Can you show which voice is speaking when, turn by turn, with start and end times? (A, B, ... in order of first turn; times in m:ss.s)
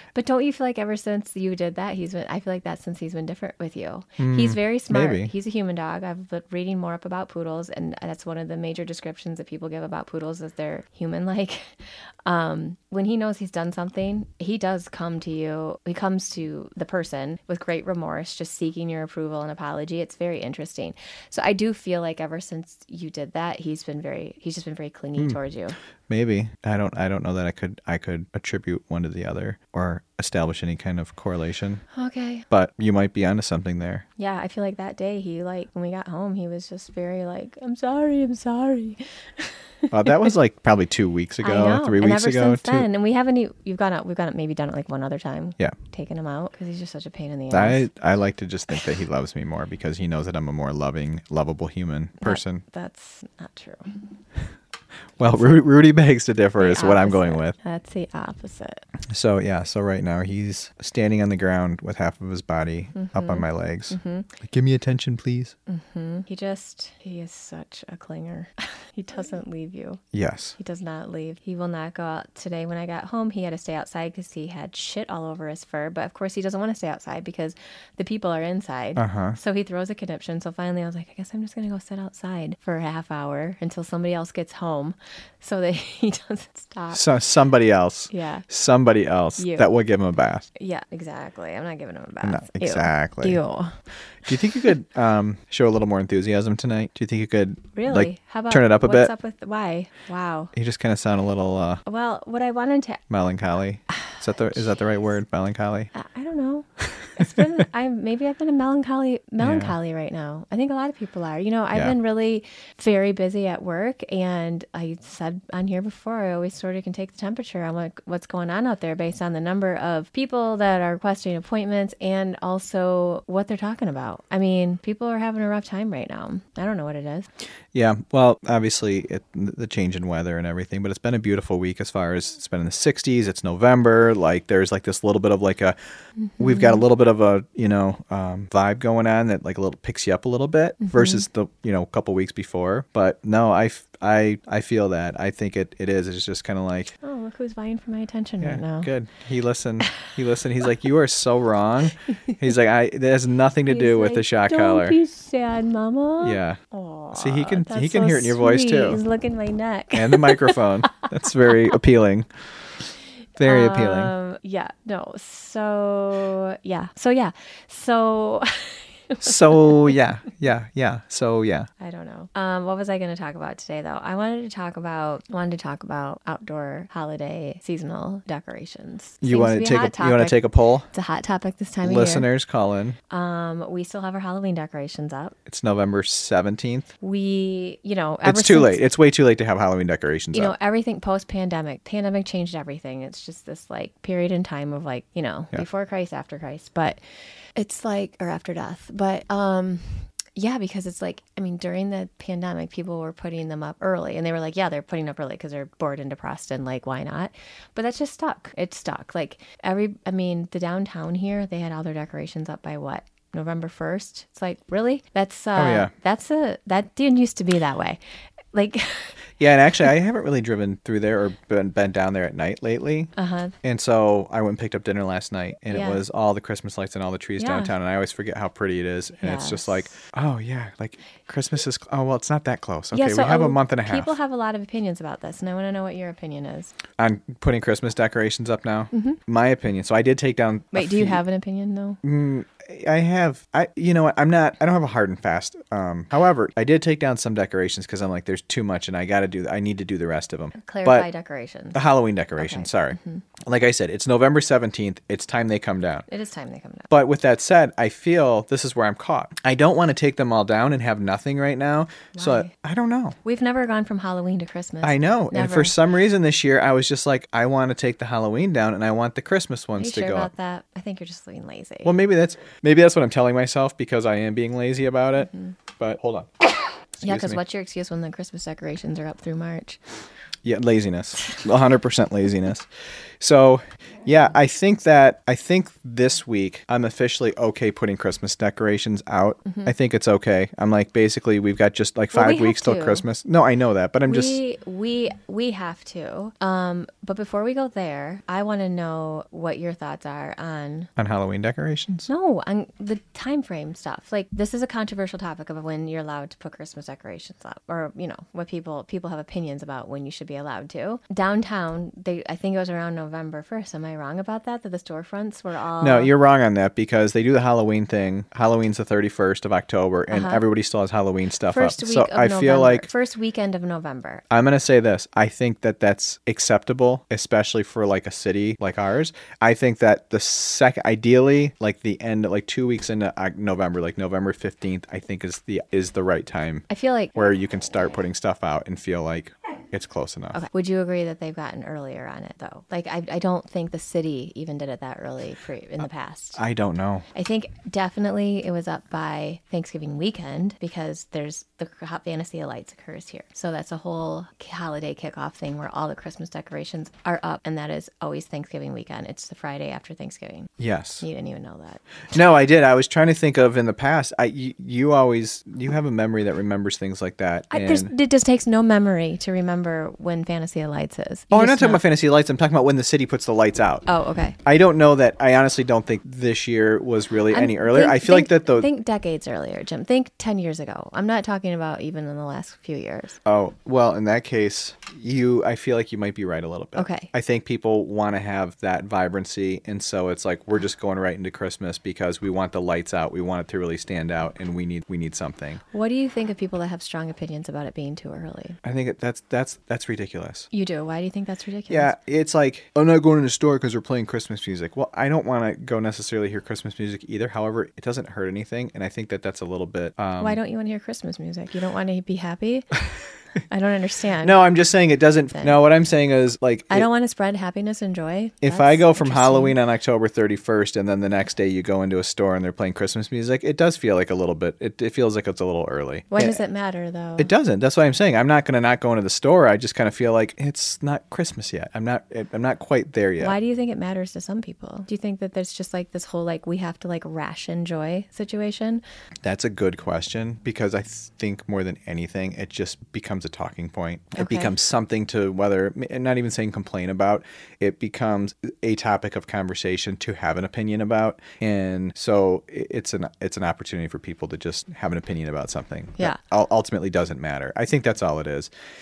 0:00.2-0:11.7 A
0:04.2-0:05.3 B
0:12.3-0:25.8 A
0:26.1-0:31.8 B
0:31.9-0:32.5 A
0:32.5-0:34.0 B
0:34.2-0:40.3 A
0:39.9-0:42.9 B
0:41.4-0:47.8 A
0:47.5-0:52.6 B
0:52.2-0:54.0 A
0:55.2-0:57.6 B
0:56.6-0:58.8 A
0:59.1-1:05.6 B
1:03.0-1:04.3 A
1:05.7-1:10.0 A
1:10.1-1:10.6 B
1:10.6-1:27.1 A
1:19.0-1:19.4 B
1:26.9-1:30.5 B
1:28.1-1:28.5 A
1:29.4-1:29.7 A
1:30.6-1:33.8 A
1:32.2-1:33.4 B
1:34.2-1:39.1 B
1:37.8-1:40.5 A
1:40.5-1:41.8 B
1:41.9-1:43.0 A
1:43.1-1:45.9 B
1:45.9-2:07.3 A
1:49.4-1:49.8 B
2:07.7-2:15.8 B
2:16.2-2:16.8 A
2:16.4-2:27.0 B
2:20.8-2:21.2 A
2:27.0-2:28.9 A
2:28.4-2:35.0 B
2:33.7-2:41.7 A
2:36.2-2:36.6 B
2:37.1-2:39.0 B
2:39.9-2:42.3 B
2:43.4-2:44.1 B
2:43.4-2:49.9 A
2:49.2-2:51.7 B
2:51.8-3:02.3 A
2:59.2-3:00.9 B
3:01.8-3:03.0 B
3:03.1-3:05.4 A
3:05.5-3:06.9 B
3:07.0-3:08.8 A
3:08.2-3:10.5 B
3:10.3-3:17.0 A
3:17.6-3:38.0 A
3:35.6-3:35.9 B
3:38.5-3:39.2 A
3:39.4-3:43.1 B
3:43.2-3:43.6 A
3:43.6-3:54.1 B
3:45.7-3:46.0 A
3:47.4-3:47.7 A
3:49.2-3:49.9 A
3:52.9-3:56.7 A
3:57.0-4:01.2 B
3:58.9-3:59.2 A
4:00.7-4:02.0 A
4:02.0-4:11.1 B
4:10.6-4:11.8 A
4:11.7-4:16.1 B
4:12.4-4:13.2 A
4:16.1-4:16.9 A
4:16.9-4:23.2 B
4:22.2-4:22.5 A
4:23.2-4:25.8 A
4:24.8-4:30.3 B
4:29.8-4:32.0 A
4:31.8-4:36.5 B
4:35.2-4:35.6 A
4:37.0-4:37.4 B
4:37.0-4:39.8 A
4:40.4-4:42.7 B
4:43.2-4:54.4 B
4:49.5-4:49.7 A
4:52.1-4:53.0 A
4:54.1-5:00.9 A
5:01.0-5:02.1 B
5:02.1-5:16.1 A
5:15.8-5:22.9 B
5:20.1-5:20.4 A
5:21.5-5:24.2 A
5:24.3-5:40.4 B
5:36.7-5:37.2 A
5:40.3-5:46.4 A
5:46.4-5:47.1 B
5:47.1-6:01.8 A
6:00.6-6:01.0 B
6:02.1-6:07.9 B
6:07.5-6:11.8 A
6:11.3-6:13.9 B
6:13.9-6:14.4 A
6:14.4-6:18.7 B
6:17.3-6:23.2 A
6:23.3-6:35.6 B
6:26.8-6:27.1 A
6:35.7-6:38.6 A
6:38.6-6:40.5 B
6:40.5-6:41.9 A
6:41.7-6:50.4 B
6:50.2-6:52.8 A
6:53.5-6:54.4 A
6:54.2-6:56.9 B
6:56.7-6:59.6 A
6:58.4-7:06.4 B
7:06.1-7:07.3 A
7:07.2-7:13.4 B
7:13.2-7:18.8 A
7:19.2-7:38.5 B
7:24.2-7:24.5 A